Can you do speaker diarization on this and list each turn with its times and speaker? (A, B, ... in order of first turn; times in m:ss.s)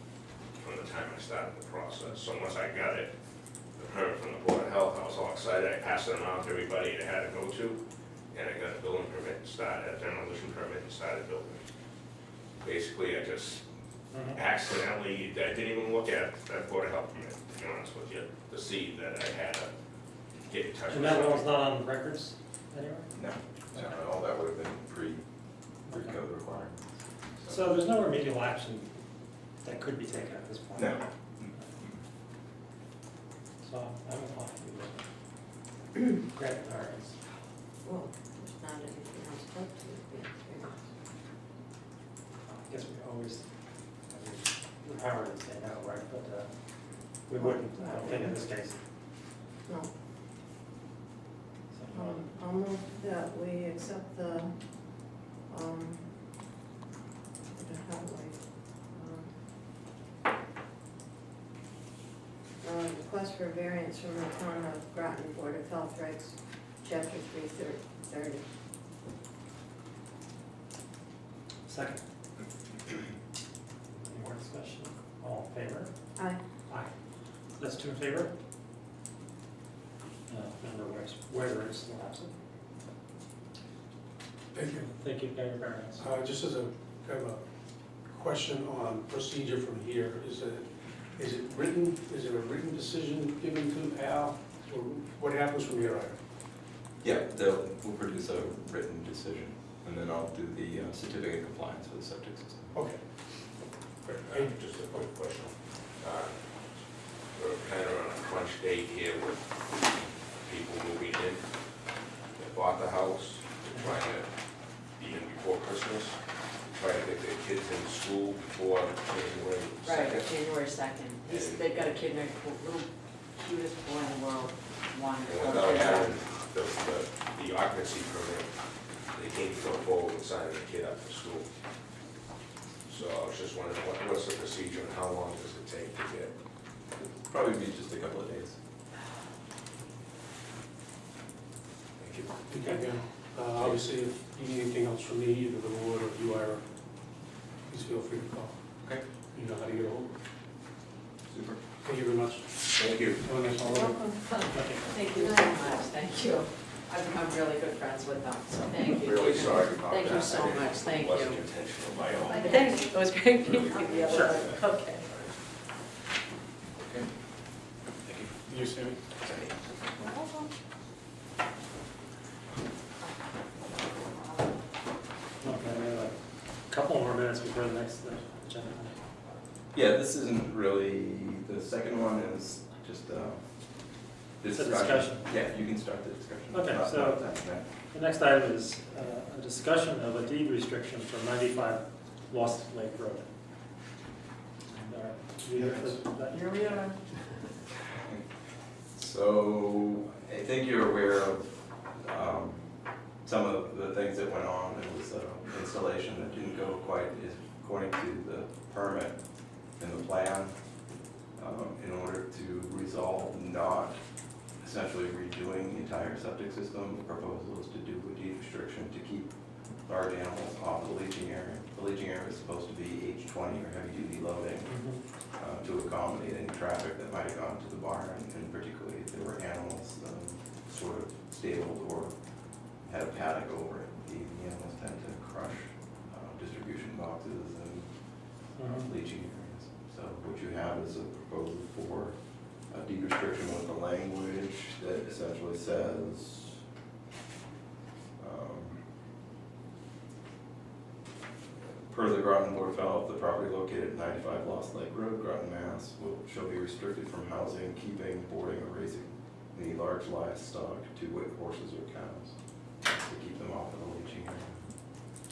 0:00.6-0:03.1 A
0:03.8-0:07.8 A
0:08.3-0:11.6 A
0:12.6-0:13.6 A
0:14.1-0:14.4 B
0:14.3-0:19.7 A
0:20.5-0:21.5 A
0:20.9-0:23.1 B
0:23.1-0:25.2 C
0:25.9-0:26.2 B
0:25.9-0:27.6 C
0:27.5-0:28.9 B
0:29.6-0:31.7 B
0:30.8-0:32.0 C
0:33.6-0:35.0 B
0:36.1-0:37.2 B
0:37.8-0:40.9 D
0:42.5-0:43.4 B
0:44.1-0:46.5 B
0:47.3-0:48.8 B
0:47.4-0:48.4 D
0:51.7-0:52.2 B
0:51.9-0:54.6 D
0:55.5-0:56.0 D
0:57.5-0:59.3 D
1:02.6-1:08.4 D
1:11.7-1:12.0 B
1:14.0-1:15.9 B
1:17.6-1:18.3 B
1:20.3-1:22.3 B
1:24.5-1:24.9 E
1:24.7-1:26.1 B
1:26.0-1:27.4 E
1:28.1-1:36.2 E
1:37.0-1:42.7 C
1:42.7-1:43.0 E
1:44.0-1:44.5 E
1:44.2-1:46.3 A
1:47.4-1:49.5 A
1:50.4-1:51.4 A
1:52.4-1:54.3 A
1:55.0-1:56.2 A
1:56.7-2:00.4 A
1:59.9-2:06.2 F
2:01.2-2:01.9 A
2:05.2-2:08.5 A
2:09.1-2:11.5 A
2:12.9-2:16.4 A
2:17.0-2:18.6 C
2:22.0-2:22.3 A
2:22.5-2:26.6 E
2:27.7-2:28.6 E
2:29.3-2:30.1 E
2:31.3-2:31.6 C
2:31.8-2:32.5 E
2:32.7-2:33.2 A
2:33.2-2:34.0 E
2:33.6-2:36.0 D
2:34.5-2:34.9 B
2:34.9-2:41.4 F
2:38.9-2:42.4 A
2:42.4-2:42.7 D
2:42.4-2:45.0 F
2:43.5-2:44.6 A
2:44.1-2:44.4 B
2:48.5-2:49.0 E
2:55.4-2:59.0 B
2:59.7-3:03.4 C
3:04.4-3:07.6 C
3:04.6-3:05.3 B
3:06.5-3:07.3 B
3:07.9-3:13.3 B
3:14.7-3:16.9 B
3:19.0-3:22.7 C
3:23.2-3:29.2 C
3:29.8-3:30.5 C
3:31.4-3:34.0 C
3:34.6-3:39.3 C
3:39.9-3:44.8 C
3:44.6-3:45.0 B
3:45.4-3:52.1 C
3:52.9-3:57.9 C
3:58.6-3:58.9 B
3:58.6-4:02.2 C
4:02.7-4:06.6 C
4:08.2-4:08.8 C
4:11.9-4:24.6 C